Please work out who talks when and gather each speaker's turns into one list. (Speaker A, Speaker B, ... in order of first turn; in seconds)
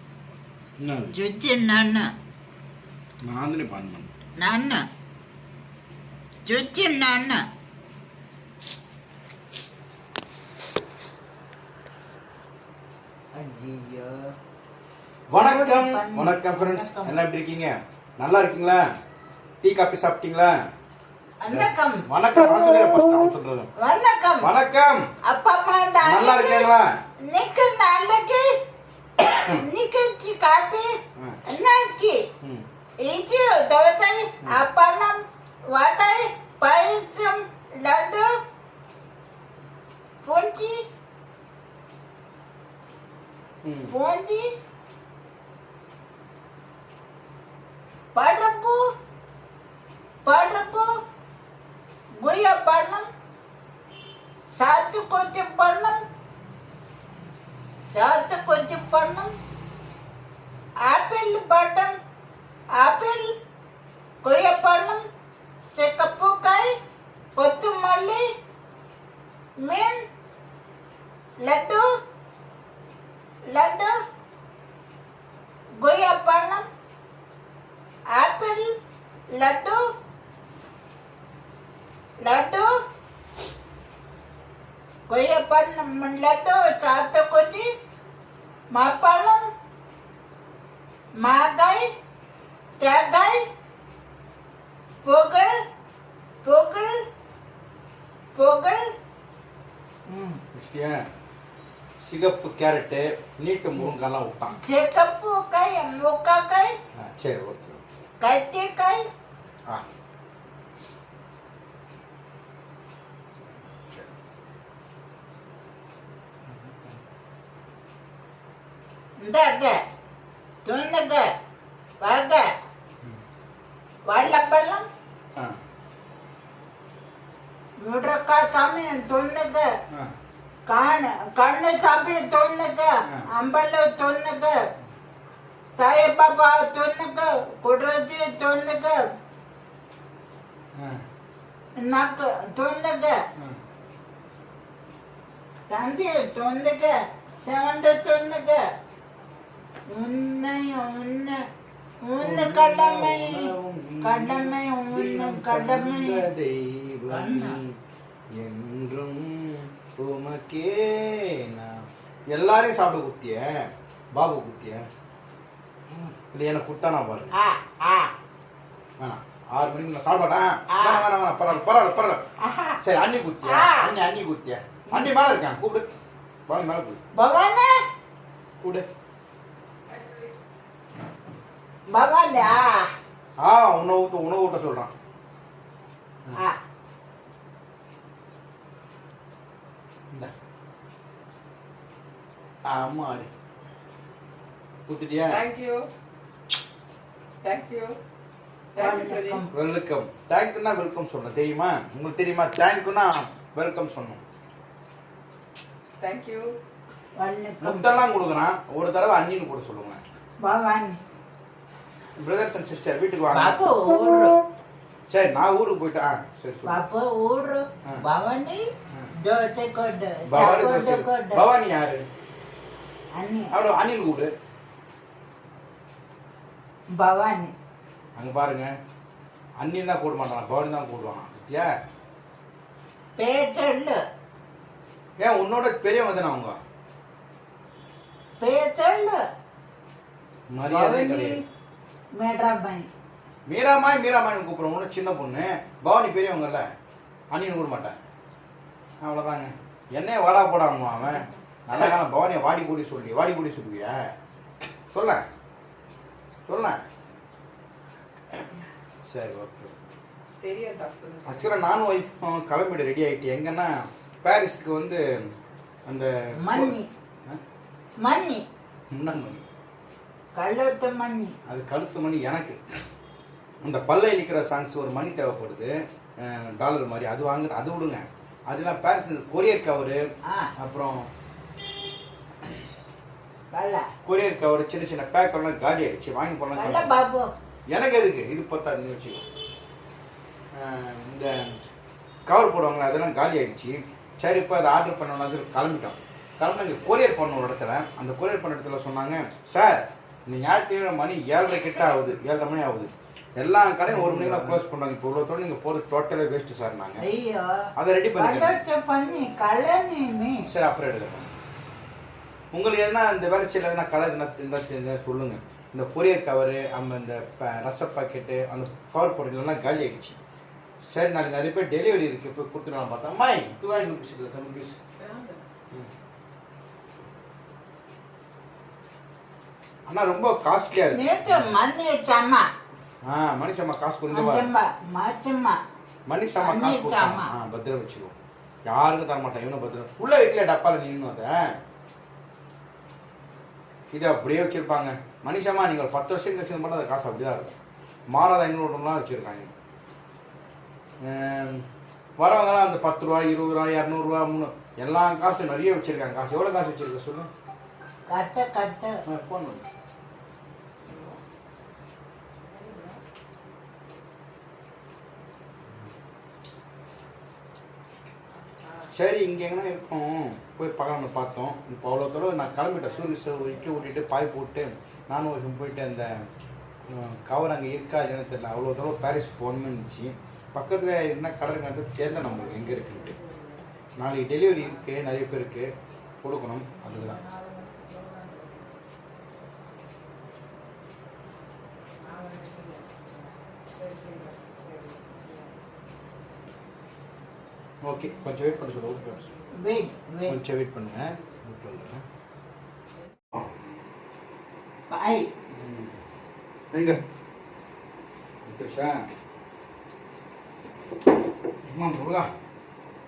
Speaker A: 0.8-1.1, 3.2-4.1, 15.3-18.8, 19.6-20.5, 21.5-23.7, 24.4-25.1, 26.0-26.9, 43.6-43.9, 100.5-101.0, 102.0-104.5, 106.9-107.8, 152.2-157.8, 158.4-164.8, 166.3-167.3, 169.0-172.2, 172.8-175.9, 176.5-177.0, 178.6-178.8, 183.4-184.9, 192.7-193.3, 194.9-195.4, 199.5-204.2, 207.6-210.0, 212.2-213.6, 215.1-216.8, 220.3-222.1, 223.5-224.3, 228.2-228.7, 229.6-231.7, 235.2-236.6, 240.5-241.4, 243.5-246.7, 247.3-248.0, 249.0-254.0, 254.9-255.2, 256.5-256.8, 259.1-259.7, 261.2-265.0, 265.9-267.4, 268.9-269.4, 271.4-272.6, 273.6-280.0, 280.6-281.1, 284.0-286.9, 287.7-289.2, 290.5-291.5, 292.3-307.0, 307.8-308.6, 310.5-311.3, 312.5-320.2, 320.8-324.8, 329.9-331.5, 333.0-334.5, 336.1-338.1, 338.7-341.4, 343.9-347.5, 348.1-349.5, 351.0-351.6, 352.2-357.3, 359.0-359.6, 368.9-376.1, 376.9-383.2, 384.0-385.7, 386.2-387.2, 397.8-399.3, 400.3-402.0, 405.5-405.9, 406.7-407.0, 408.4-409.0, 411.7-412.3
Speaker B: 1.1-2.1, 4.4-4.8, 6.5-7.4, 13.3-14.3, 15.4-17.2, 21.4-22.0, 23.8-24.5, 25.2-26.7, 27.3-28.5, 29.3-30.9, 31.4-32.2, 33.0-35.2, 35.7-38.3, 40.2-40.8, 43.9-44.4, 48.1-48.8, 50.2-50.9, 52.2-53.1, 54.6-56.0, 57.9-59.3, 60.9-62.0, 62.8-63.3, 64.2-65.0, 65.7-66.7, 67.3-68.2, 69.6-70.0, 71.4-71.8, 73.5-73.9, 75.8-76.7, 78.1-78.7, 79.3-79.8, 82.2-82.7, 85.1-87.7, 88.7-89.5, 91.2-91.9, 92.8-93.4, 95.0-95.5, 96.4-97.0, 98.3-98.8, 100.1-100.4, 104.5-106.7, 108.2-109.0, 119.2-119.8, 120.6-121.3, 122.0-122.5, 124.1-124.8, 127.8-129.7, 130.7-134.6, 135.8-139.0, 141.8-143.2, 145.7-148.6, 149.9-151.4, 152.0-153.5, 154.0-156.2, 157.1-157.6, 167.3-168.1, 170.7-171.1, 172.4-172.8, 173.4-173.9, 177.2-177.7, 181.9-182.9, 198.8-199.5, 207.2-207.9, 210.4-211.0, 213.3-214.4, 216.6-218.6, 219.2-221.4, 223.1-223.5, 227.0-227.5, 233.2-234.0, 238.4-239.2, 240.7-241.4, 242.2-242.9, 266.4-266.9, 268.0-268.4, 270.4-271.3, 283.5-283.9, 286.5-287.3, 303.9-304.3, 307.0-307.6, 308.2-310.4, 330.9-332.4, 334.1-335.6, 336.4-337.3, 358.1-359.0, 399.5-400.4, 404.9-405.3
Speaker C: 195.3-195.9, 197.4-198.0, 198.7-199.4, 206.0-206.5, 260.4-261.6, 325.0-325.4, 360.9-361.1, 362.5-363.0, 382.5-383.6, 387.1-388.6, 392.0-393.1, 393.7-395.5